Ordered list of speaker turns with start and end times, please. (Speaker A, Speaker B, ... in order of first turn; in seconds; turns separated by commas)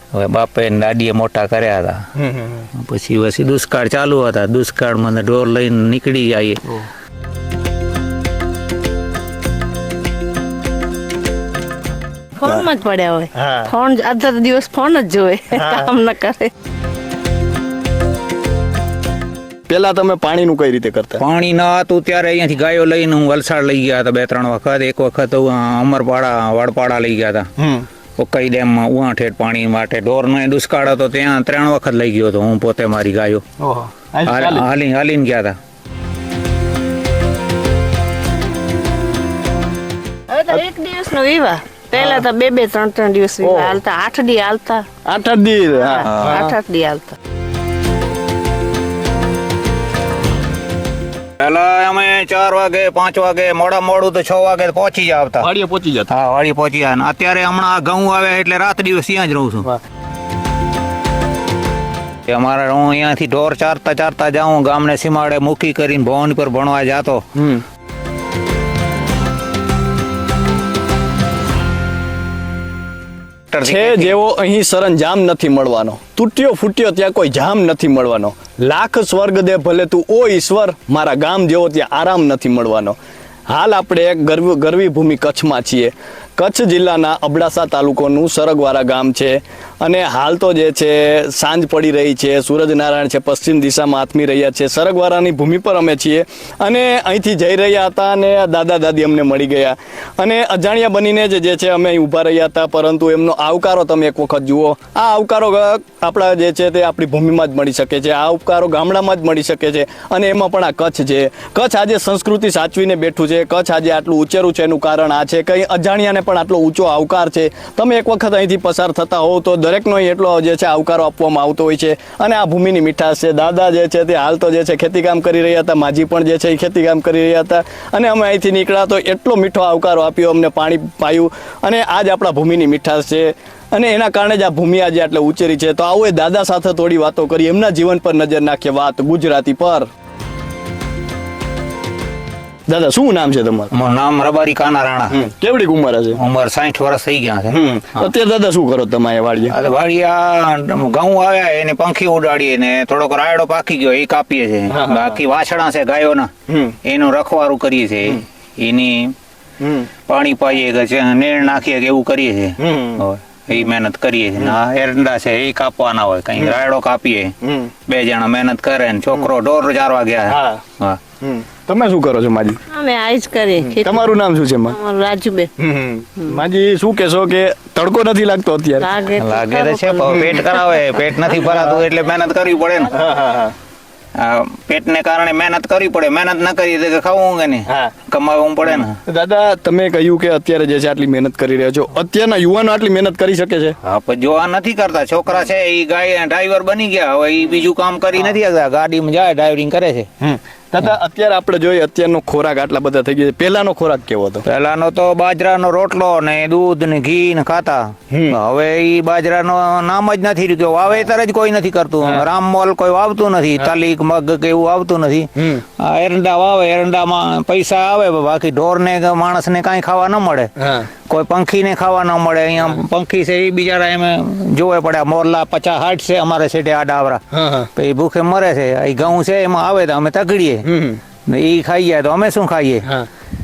Speaker A: 0.1-2.0, Speaker B: 2.1-2.7, Speaker A: 2.7-6.8, Speaker C: 12.3-16.5, Speaker B: 13.4-13.7, Speaker B: 15.5-15.9, Speaker B: 19.7-21.2, Speaker A: 21.2-27.5, Speaker B: 27.6-27.9, Speaker A: 28.2-33.4, Speaker B: 33.6-34.7, Speaker A: 34.2-35.5, Speaker C: 40.3-44.9, Speaker B: 42.0-42.2, Speaker B: 43.4-43.8, Speaker B: 45.0-46.6, Speaker C: 45.8-47.1, Speaker A: 46.0-46.5, Speaker A: 51.4-55.5, Speaker B: 55.4-56.1, Speaker A: 56.1-59.7, Speaker A: 62.3-67.2, Speaker B: 67.4-67.6, Speaker A: 73.5-74.2, Speaker B: 73.6-83.0, Speaker B: 83.5-139.9, Speaker B: 142.7-143.7, Speaker A: 143.7-145.2, Speaker B: 145.1-146.2, Speaker A: 146.1-148.0, Speaker B: 147.5-149.6, Speaker A: 149.5-156.3, Speaker B: 154.7-155.2, Speaker B: 156.5-156.8, Speaker A: 156.8-159.1, Speaker B: 159.6-159.9, Speaker A: 160.1-167.3, Speaker B: 162.6-163.0, Speaker B: 167.4-167.7, Speaker A: 167.9-171.0, Speaker B: 170.3-170.6, Speaker B: 171.2-172.6, Speaker C: 172.7-174.2, Speaker B: 173.7-174.8, Speaker C: 174.7-175.5, Speaker B: 175.6-178.9, Speaker C: 178.8-180.7, Speaker A: 179.2-183.0, Speaker B: 181.4-181.8, Speaker B: 182.9-183.5, Speaker A: 184.2-189.0, Speaker B: 187.7-187.9, Speaker B: 188.7-193.8, Speaker A: 193.8-200.1, Speaker B: 200.2-204.4, Speaker A: 204.4-220.5, Speaker B: 208.1-208.4, Speaker B: 215.4-215.6, Speaker B: 220.6-220.9, Speaker A: 221.1-227.2, Speaker B: 227.3-227.7, Speaker A: 227.7-230.7, Speaker B: 230.6-231.0, Speaker A: 231.3-232.9